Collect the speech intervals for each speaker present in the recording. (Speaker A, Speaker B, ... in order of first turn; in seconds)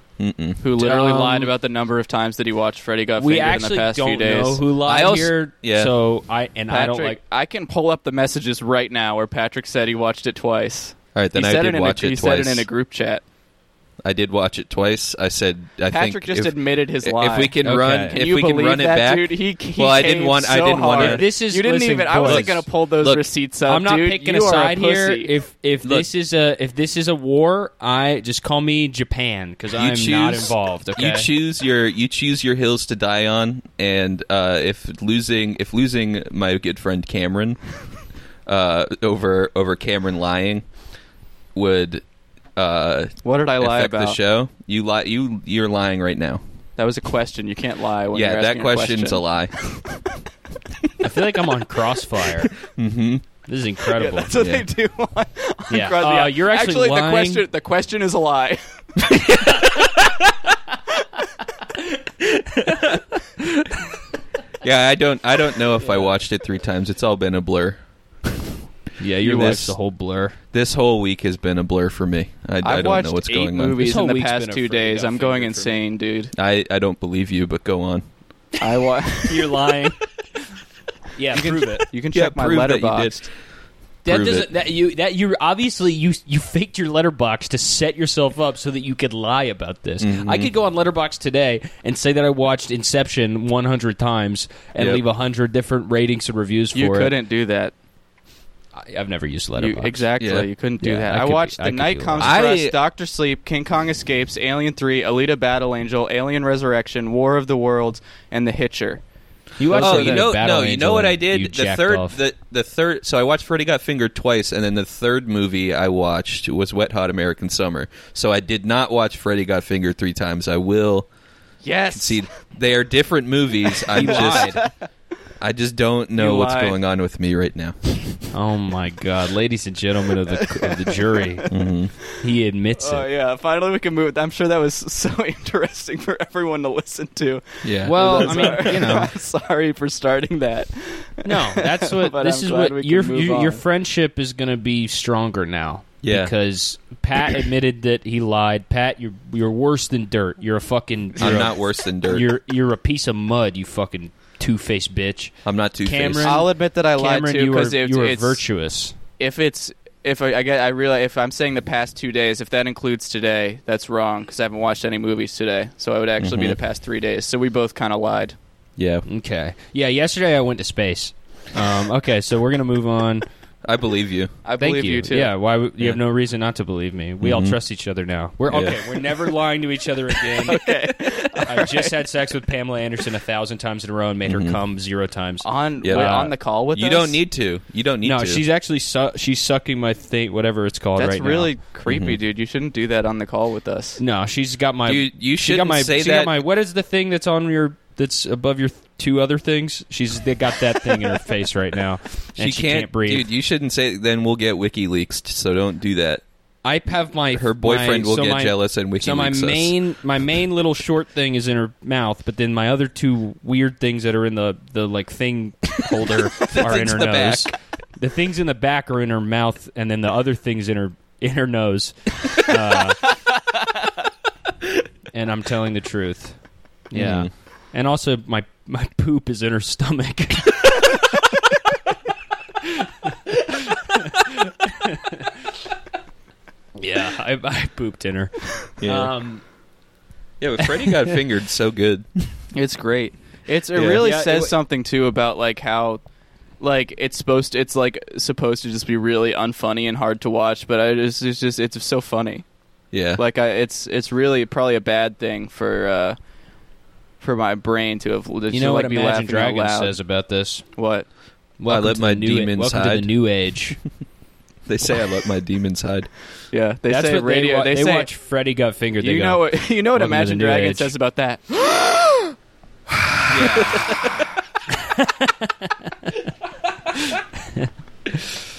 Speaker A: 0.2-0.6, 4.9-5.9, 11.1-12.7, 14.0-21.2, 22.2-23.3, 29.7-37.7, 38.5-40.6, 41.5-42.0, 42.5-46.4, 48.1-49.5, 52.6-53.2, 54.4-54.6, 64.6-68.3, 69.2-69.8, 70.5-73.8, 76.3-78.1, 82.1-83.3, 84.0-84.5, 90.0-90.5, 94.8-95.0, 100.2-100.5, 102.2-102.8, 109.7-121.1, 121.9-124.7, 125.4-128.2, 131.5-131.9, 137.6-138.7, 146.0-146.3, 151.2-152.3, 155.4-156.4, 166.2-166.6, 168.8-169.0, 173.6-174.4, 177.2-177.6, 178.5-178.8, 184.2-184.6, 185.8-186.1, 186.7-188.4, 191.8-192.2, 194.8-196.4, 202.4-206.2, 207.3-209.7, 216.5-217.5, 226.9-227.3, 238.8-239.1, 240.4-242.1, 243.7-244.0, 252.9-253.2, 261.7-263.1, 264.7-266.1, 273.3-274.0
Speaker B: 0.6-5.1, 6.7-13.2, 15.9-25.3, 43.2-44.2, 46.8-49.4, 54.0-59.4, 69.2-69.7, 72.6-76.3, 78.6-79.5, 81.3-83.2, 96.7-97.7, 99.5-109.0, 109.6-110.3, 121.6-122.3, 123.8-124.7, 126.2-126.8, 130.4-131.2, 132.8-143.6, 156.2-158.4, 159.2-168.3, 174.4-175.3, 180.4-181.9, 185.4-187.2, 190.9-194.0, 242.5-246.0, 246.6-252.4, 253.2-256.2, 257.2-259.9, 260.8-261.1, 266.5-268.1, 269.0-272.3, 273.4-274.2
Speaker C: 0.8-1.5, 3.2-7.2, 17.6-18.2, 20.9-22.6, 23.7-31.3, 51.0-52.5, 53.5-54.3, 55.7-57.4, 59.3-59.7, 62.0-63.8, 69.0-70.4, 73.8-75.8, 79.2-80.1, 81.1-81.8, 84.0-97.1, 98.8-100.0, 100.8-102.3, 109.6-112.2, 123.9-124.6, 128.3-131.5, 132.1-133.1, 137.8-139.1, 141.2-158.9, 169.1-173.2, 174.6-180.7, 181.3-186.3, 188.0-191.5, 194.0-203.3, 206.6-223.0, 225.1-231.0, 232.6-235.3, 236.8-239.4, 244.0-244.5, 258.5-260.6, 261.6-263.8, 266.9-270.9, 274.7-276.3, 276.9-278.4